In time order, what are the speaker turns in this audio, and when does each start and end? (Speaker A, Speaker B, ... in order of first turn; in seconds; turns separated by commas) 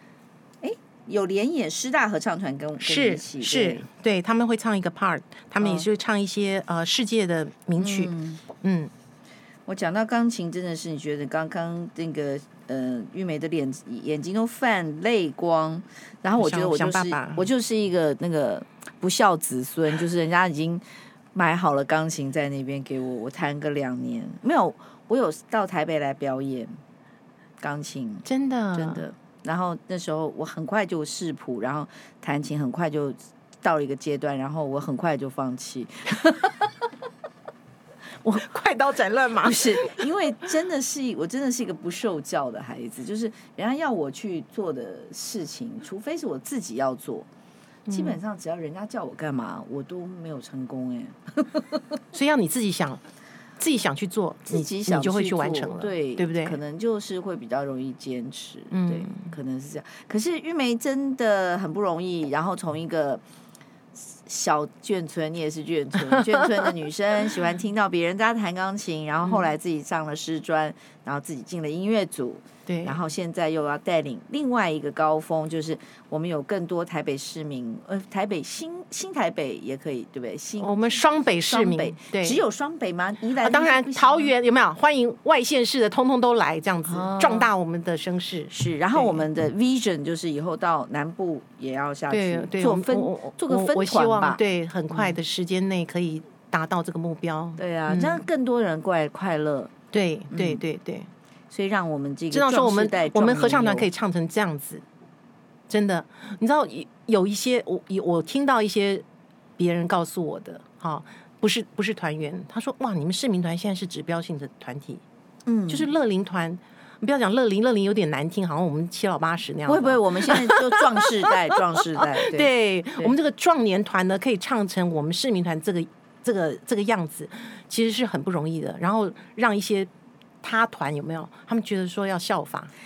Speaker A: 0.6-3.9, Speaker B: 2.8-8.9, Speaker A: 5.6-5.9, Speaker A: 7.8-8.4, Speaker A: 9.7-20.8, Speaker B: 16.4-17.5, Speaker A: 21.3-26.7, Speaker A: 27.6-36.7, Speaker B: 28.2-29.0, Speaker B: 38.2-40.0, Speaker A: 39.4-47.3, Speaker B: 47.9-48.2, Speaker A: 47.9-51.8, Speaker B: 52.1-53.0, Speaker B: 53.6-56.6, Speaker A: 54.5-63.2, Speaker B: 58.7-59.3, Speaker A: 63.9-80.8, Speaker B: 66.1-66.6, Speaker B: 72.7-73.0, Speaker B: 80.6-82.4, Speaker A: 81.5-84.3, Speaker B: 83.4-89.2, Speaker A: 86.8-87.5, Speaker A: 88.5-95.2, Speaker B: 92.1-98.2, Speaker A: 97.6-99.7, Speaker B: 99.9-101.1, Speaker A: 100.3-100.6, Speaker A: 101.5-103.9, Speaker B: 102.3-104.8, Speaker B: 105.7-109.0, Speaker B: 109.6-115.0, Speaker A: 115.5-115.9, Speaker B: 115.7-129.9, Speaker A: 119.7-123.1, Speaker B: 130.4-132.7